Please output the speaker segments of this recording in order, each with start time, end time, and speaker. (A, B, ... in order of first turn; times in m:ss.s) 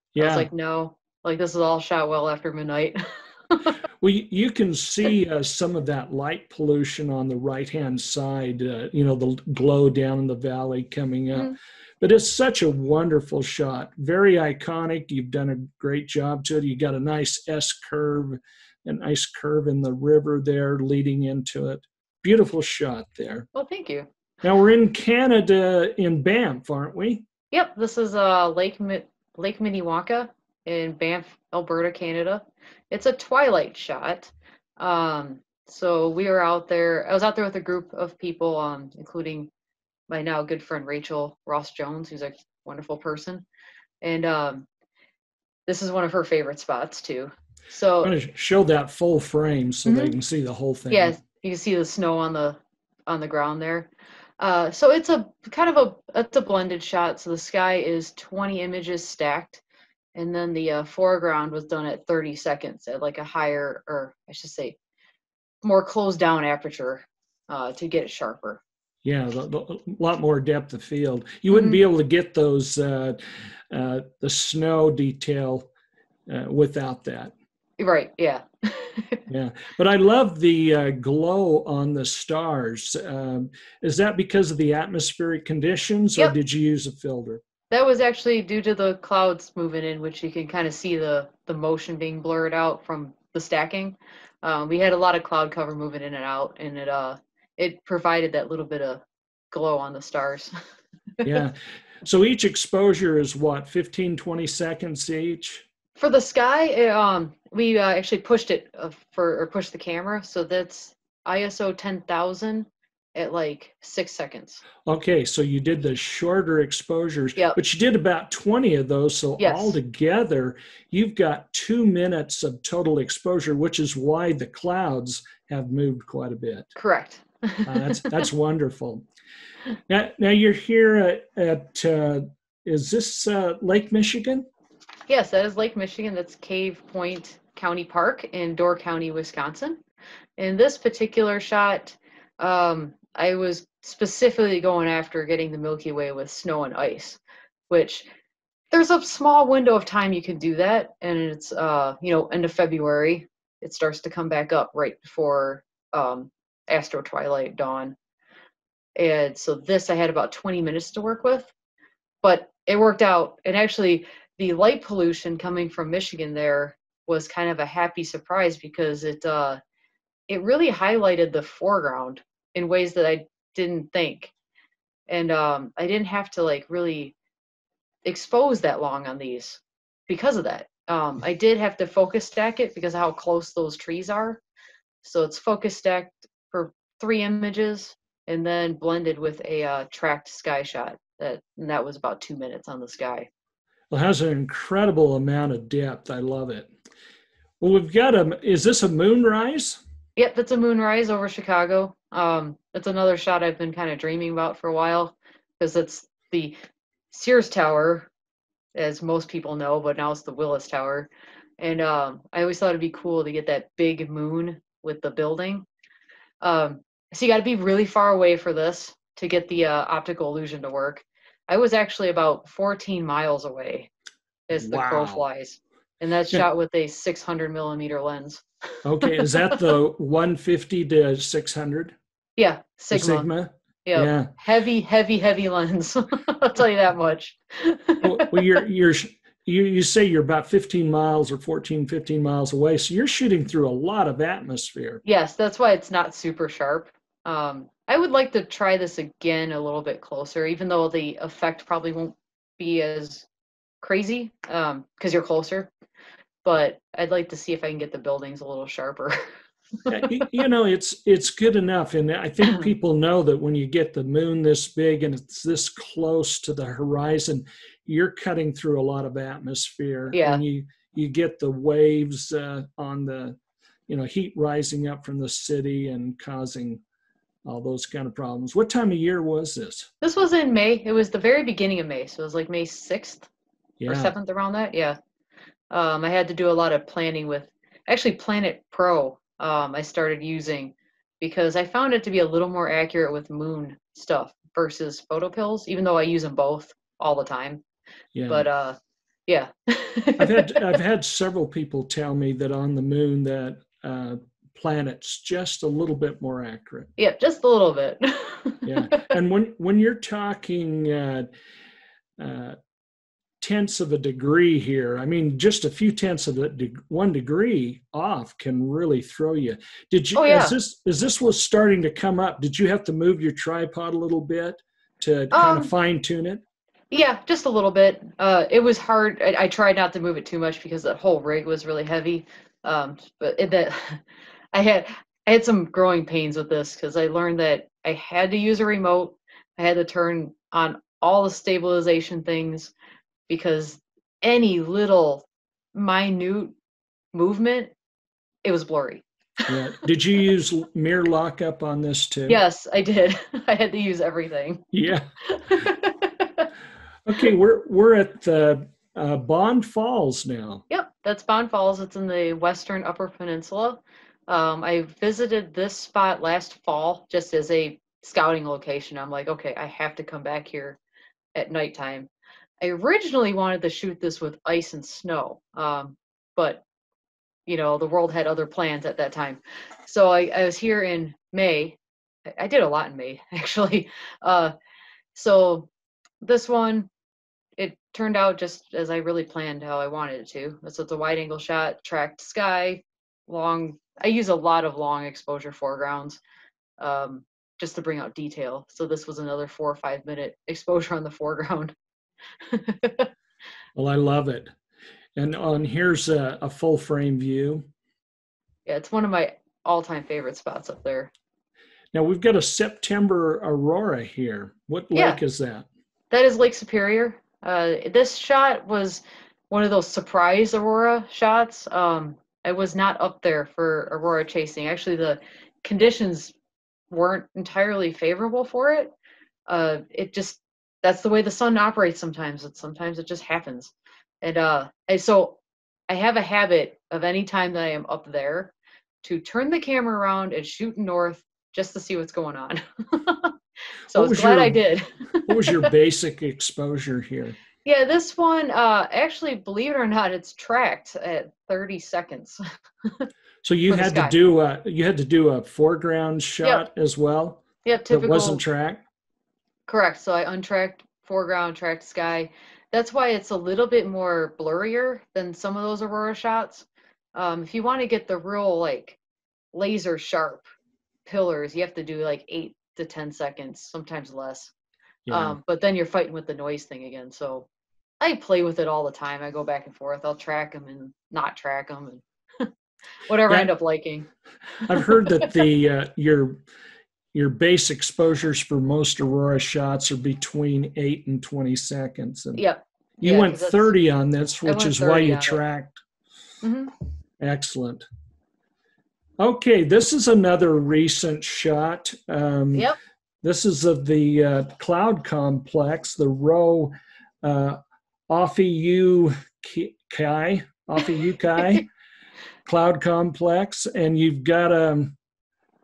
0:00.1-0:00.5 A
0:00.2-0:03.8 B
0:04.0-0:23.4 A
0:23.5-0:24.1 B
0:24.4-0:27.2 A
0:27.5-0:39.5 B
0:40.1-0:43.4 B
0:44.0-0:44.7 B
0:45.6-0:48.1 B
0:48.0-0:51.2 A
0:49.8-0:50.1 B
0:50.9-0:59.6 B
1:00.1-1:04.8 B
1:05.6-1:08.6 B
1:09.0-1:15.7 A
1:11.5-1:11.8 B
1:16.3-1:17.3 A
1:17.8-1:19.2 B
1:19.3-1:27.4 A
1:27.7-1:40.5 B
1:41.2-1:45.7 A
1:46.0-1:54.6 B
1:54.8-2:06.7 A
1:59.4-1:59.8 B
2:06.7-2:08.2 B
2:07.6-2:09.0 A
2:09.9-2:14.4 A
2:15.1-2:19.8 B
2:20.4-2:28.1 B
2:28.7-2:38.0 B
2:38.9-2:41.5 B
2:42.2-2:49.6 B
2:50.3-2:54.3 B
2:55.1-2:57.1 B
2:58.0-3:04.4 B
3:05.0-3:13.3 B
3:13.9-3:16.7 A
3:17.6-3:19.8 A
3:20.2-3:26.6 B
3:27.1-3:28.1 B
3:28.7-3:35.6 B
3:36.4-3:43.9 B
3:44.5-3:48.4 B
3:44.5-3:45.2 A
3:48.8-3:52.0 A
3:49.0-3:49.6 B
3:52.4-3:53.3 B
3:52.9-3:54.3 A
3:53.8-3:58.4 B
3:58.0-4:05.0 A
4:05.0-4:13.3 B
4:13.8-4:15.7 B
4:16.4-4:19.2 B
4:19.9-4:20.2 B
4:19.9-4:33.4 A
4:30.1-4:30.4 B
4:33.9-4:36.8 A
4:37.4-4:39.9 A
4:40.0-4:43.3 B
4:43.8-4:44.1 A
4:43.8-4:45.0 B
4:45.7-4:57.6 B
4:58.1-4:58.4 A
4:58.3-5:00.7 B
5:00.2-5:06.9 A
5:07.0-5:09.1 B
5:08.6-5:11.3 A
5:12.2-5:12.6 A
5:13.4-5:26.4 A
5:20.1-5:20.5 B
5:25.3-5:25.7 B
5:26.9-5:34.0 B
5:34.5-5:42.7 B
5:43.3-5:46.5 B
5:47.1-5:47.7 B
5:48.4-5:49.7 B
5:49.5-5:52.4 A
5:52.3-5:54.7 B
5:54.7-5:55.1 A
5:55.3-5:56.5 B
5:57.0-6:00.6 A
6:00.7-6:10.8 B
6:11.3-6:12.1 B
6:12.6-6:16.6 B
6:17.5-6:21.8 B
6:22.4-6:24.5 B
6:25.1-6:25.7 B
6:26.2-6:26.9 B
6:27.6-6:36.2 B
6:36.8-6:41.7 B
6:42.4-6:43.1 B
6:43.7-6:44.5 A
6:45.2-6:47.6 A
6:48.6-6:51.1 B
6:51.9-6:55.7 A
6:54.9-6:55.2 B
6:56.1-7:06.3 B
7:06.9-7:08.9 B
7:09.5-7:23.3 B
7:23.9-7:25.7 B
7:23.9-7:24.6 A
7:25.3-7:27.4 A
7:27.6-7:33.1 B
7:33.4-7:38.8 A
7:33.7-7:34.1 B
7:37.6-7:38.4 B
7:39.7-7:49.0 B
7:49.5-7:50.4 B
7:51.0-7:54.5 B
7:55.0-7:55.4 A
7:55.1-7:57.5 B
7:58.0-8:02.5 B
8:03.0-8:04.1 B
8:04.6-8:05.3 B
8:04.6-8:06.4 A
8:07.1-8:12.4 A
8:12.3-8:13.7 B
8:13.0-8:15.8 A
8:14.4-8:15.4 B
8:16.4-8:16.7 B
8:17.2-8:17.8 A
8:19.2-8:22.7 A
8:23.2-8:31.7 A
8:32.4-8:35.0 A